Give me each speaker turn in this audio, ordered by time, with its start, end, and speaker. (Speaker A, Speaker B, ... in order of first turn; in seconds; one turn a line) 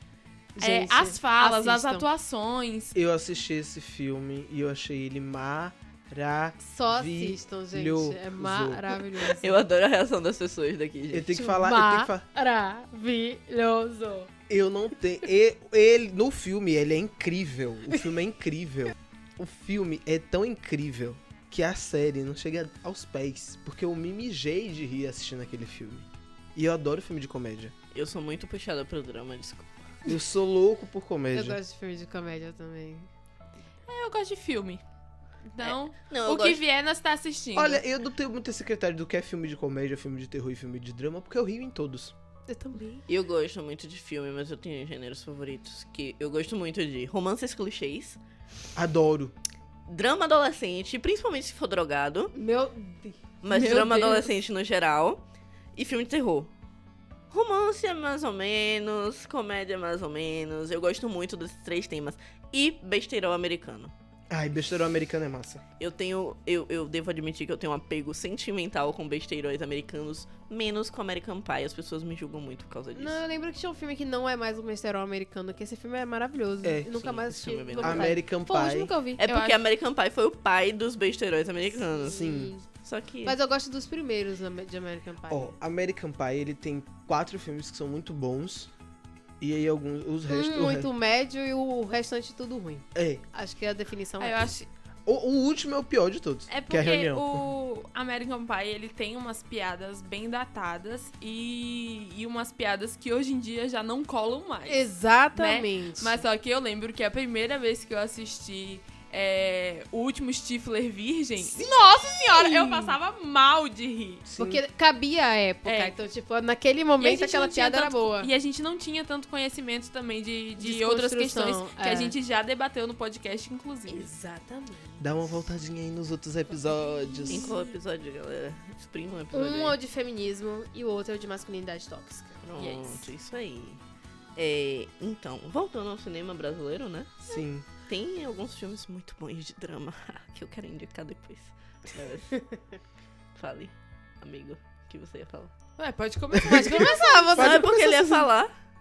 Speaker A: 0.6-2.1
Speaker B: 0.6-2.9
Speaker C: 2.9-9.0
Speaker A: 6.6-9.6
Speaker D: 9.2-11.4
Speaker C: 11.1-12.2
Speaker A: 11.3-14.3
Speaker C: 14.5-27.7
Speaker D: 27.9-29.9
Speaker C: 30.1-31.6
Speaker A: 31.3-33.1
Speaker B: 33.9-34.8
Speaker B: 35.5-37.8
Speaker D: 35.6-36.6
Speaker C: 37.5-42.1
Speaker A: 42.5-43.0
Speaker D: 43.1-48.2
Speaker C: 48.7-49.3
Speaker D: 49.9-52.3
Speaker A: 52.3-53.2
Speaker D: 53.4-55.2
Speaker B: 53.5-54.3
Speaker D: 55.7-56.5
Speaker D: 57.3-63.9
Speaker C: 64.3-65.6
Speaker D: 65.8-73.2
Speaker A: 72.9-79.2
Speaker C: 76.6-77.0
Speaker D: 76.9-78.2
Speaker C: 77.8-78.9
Speaker D: 79.2-82.2
Speaker B: 79.2-79.6
Speaker A: 81.8-82.6
Speaker C: 82.1-82.5
Speaker D: 82.8-83.3
Speaker A: 83.2-85.5
Speaker C: 85.3-88.7
Speaker C: 89.4-90.9
Speaker A: 90.3-94.5
Speaker C: 92.9-93.2
Speaker B: 94.2-94.7
Speaker C: 95.0-97.5
Speaker B: 96.5-114.2
Speaker A: 104.7-106.2
Speaker A: 111.5-113.0
Speaker C: 114.2-114.6
Speaker A: 114.4-118.3
Speaker B: 115.6-116.0
Speaker B: 117.0-124.1
Speaker A: 120.6-122.1
Speaker A: 123.9-125.2
Speaker C: 125.0-127.5
Speaker A: 127.2-127.6
Speaker D: 127.3-129.8
Speaker A: 129.3-132.8
Speaker D: 132.4-133.8
Speaker B: 132.6-133.0
Speaker D: 134.3-137.2
Speaker C: 137.2-137.7
Speaker D: 137.8-142.4
Speaker D: 143.3-145.5
Speaker B: 145.8-147.4
Speaker A: 146.4-148.3
Speaker C: 146.5-146.8
Speaker C: 147.4-147.7
Speaker D: 147.4-148.5